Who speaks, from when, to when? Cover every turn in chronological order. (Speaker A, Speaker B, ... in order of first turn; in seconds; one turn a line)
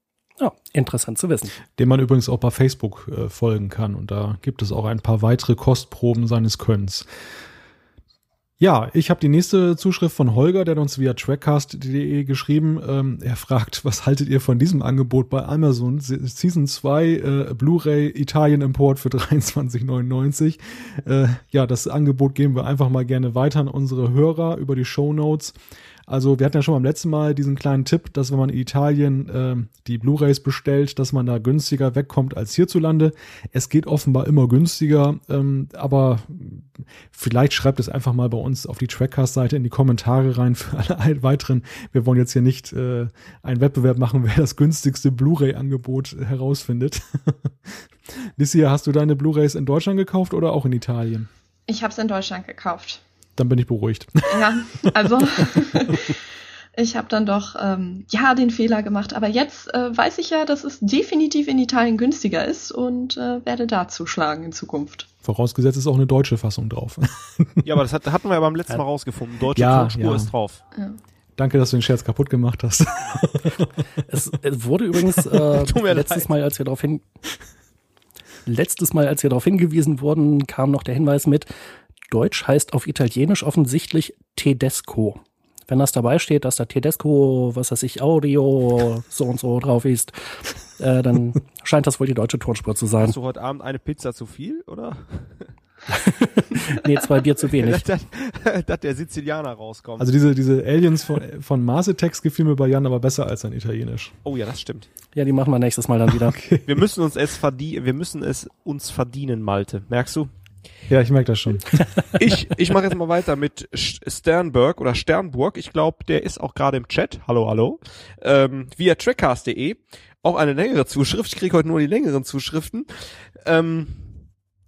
Speaker A: 0.4-1.5
Speaker B: 1.8-7.1
Speaker B: 8.6-25.5
Speaker B: 26.1-47.7
Speaker B: 48.4-51.3
Speaker C: 51.7-53.0
Speaker B: 53.4-54.9
Speaker C: 54.3-56.2
Speaker C: 56.8-65.1
Speaker B: 65.2-67.7
Speaker D: 67.6-70.6
Speaker B: 69.5-70.3
Speaker B: 71.4-73.8
Speaker A: 74.1-77.0
Speaker D: 75.3-76.3
Speaker A: 78.5-81.5
Speaker A: 82.1-93.2
Speaker D: 93.0-95.5
Speaker A: 95.9-97.8
Speaker D: 97.5-100.1
Speaker B: 100.0-104.1
Speaker D: 104.2-104.9
Speaker A: 105.1-106.4
Speaker B: 106.2-106.7
Speaker D: 106.7-110.3
Speaker B: 110.9-111.8
Speaker D: 112.2-122.9
Speaker D: 123.4-124.1